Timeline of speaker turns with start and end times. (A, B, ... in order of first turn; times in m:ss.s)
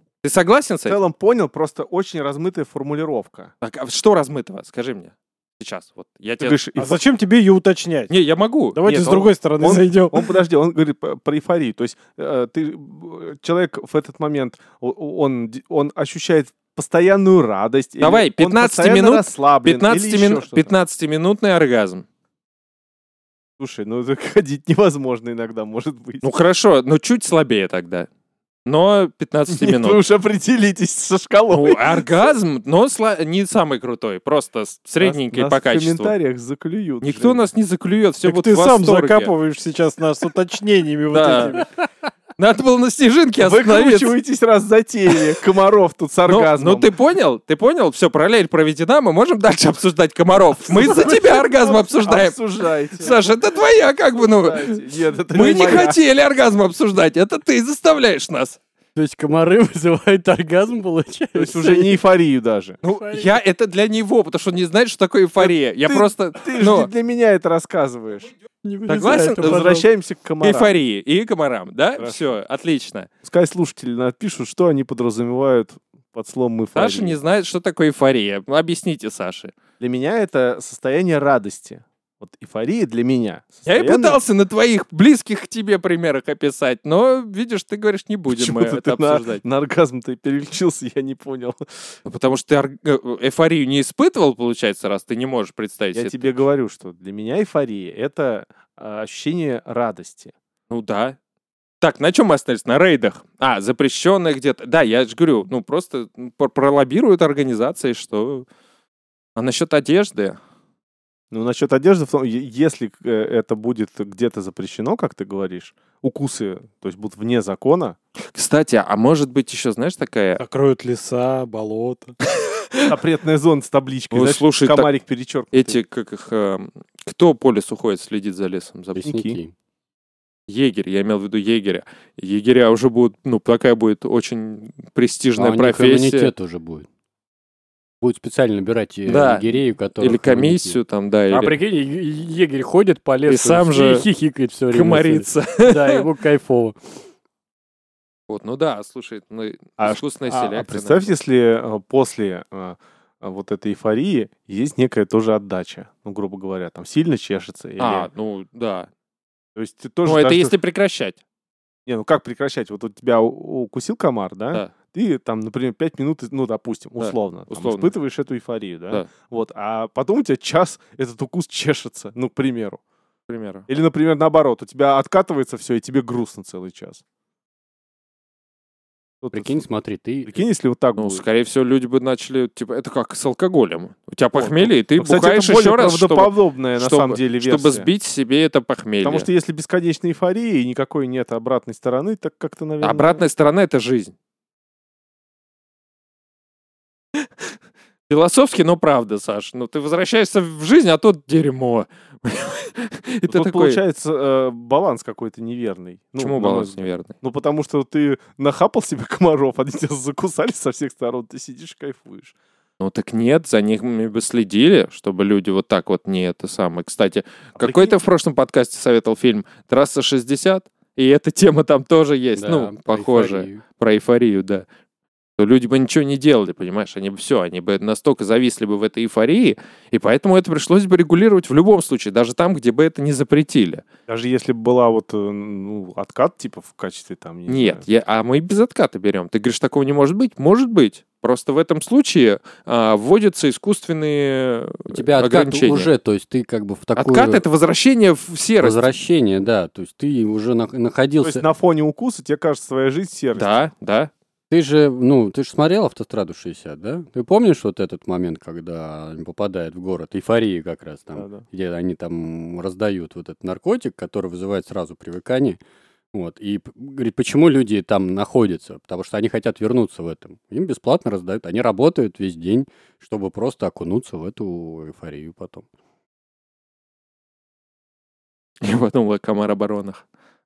0:00.2-0:01.0 A
0:00.8-0:03.5 B
0:03.6-0:06.6 A
0:06.4-0:07.0 B
0:06.7-0:08.1 C
0:08.1-0:08.8 A
0:08.7-0:10.3 C
0:08.8-0:20.7 B
0:18.0-0:22.0 A
0:23.6-0:26.2 B
0:26.2-0:28.1 A
0:28.6-0:30.0 A
0:29.5-0:32.3 B
0:31.5-0:36.1 A
0:35.0-0:37.5 B
0:37.0-0:39.3 A
0:38.2-0:41.6 C
0:41.1-0:41.6 A
0:42.4-0:44.1 A
0:43.4-0:46.9 B
0:46.3-0:52.4 A
0:50.7-0:53.2 B
0:53.0-0:54.8 A
0:54.2-0:56.0 B
0:55.3-0:58.6 A
0:59.0-1:02.0 D
1:01.3-1:02.8 B
1:02.8-1:06.9 A
1:02.8-1:03.4 D
1:05.4-1:08.3 B
1:08.6-1:09.8 D
1:08.9-1:09.7 A
1:09.4-1:10.8 B
1:10.4-1:13.1 A
1:13.2-1:17.2 B
1:16.7-1:19.5 A
1:19.8-1:24.2 B
1:23.6-1:29.4 A
1:28.3-1:31.6 B
1:32.0-1:36.2 A
1:35.9-1:40.3 B
1:40.7-1:41.2 A
1:41.8-1:48.4 A
1:49.4-1:50.4 A
1:51.3-1:58.0 B
1:58.3-2:00.4 A
2:00.4-2:02.1 C
2:02.5-2:03.0 A
2:02.9-2:05.8 B
2:04.1-2:04.9 A
2:05.5-2:09.1 A
2:09.0-2:09.5 D
2:09.0-2:09.4 B
2:10.5-2:16.3 A
2:15.4-2:16.9 D
2:18.0-2:26.8 D
2:19.1-2:21.6 A
2:23.3-2:24.0 A
2:24.7-2:26.0 A
2:28.3-2:31.1 A
2:29.8-2:38.1 B
2:37.8-2:38.9 A
2:39.6-2:40.5 B
2:40.0-2:41.2 A
2:41.8-2:52.8 B
2:47.0-2:47.9 A
2:53.3-2:53.6 A
2:53.7-2:57.0 B
2:59.2-2:59.6 B
2:59.3-3:00.4 D
3:00.2-3:01.2 B
3:01.0-3:09.3 A
3:04.3-3:07.9 B
3:09.0-3:13.2 B
3:12.8-3:14.1 A
3:18.1-3:23.8 A
3:23.3-3:32.3 B
3:26.2-3:27.1 A
3:32.8-3:44.6 A
3:37.6-3:38.0 B
3:42.4-3:43.6 D
3:45.4-3:53.8 A
3:54.1-3:57.8 B
3:57.5-4:05.9 A
4:04.9-4:07.4 D
4:07.0-4:08.9 A
4:08.6-4:11.4 D
4:11.2-4:13.5 B
4:13.3-4:14.1 A
4:14.5-4:25.6 D
4:21.2-4:21.4 B
4:26.1-4:35.6 D
4:38.6-4:40.0 A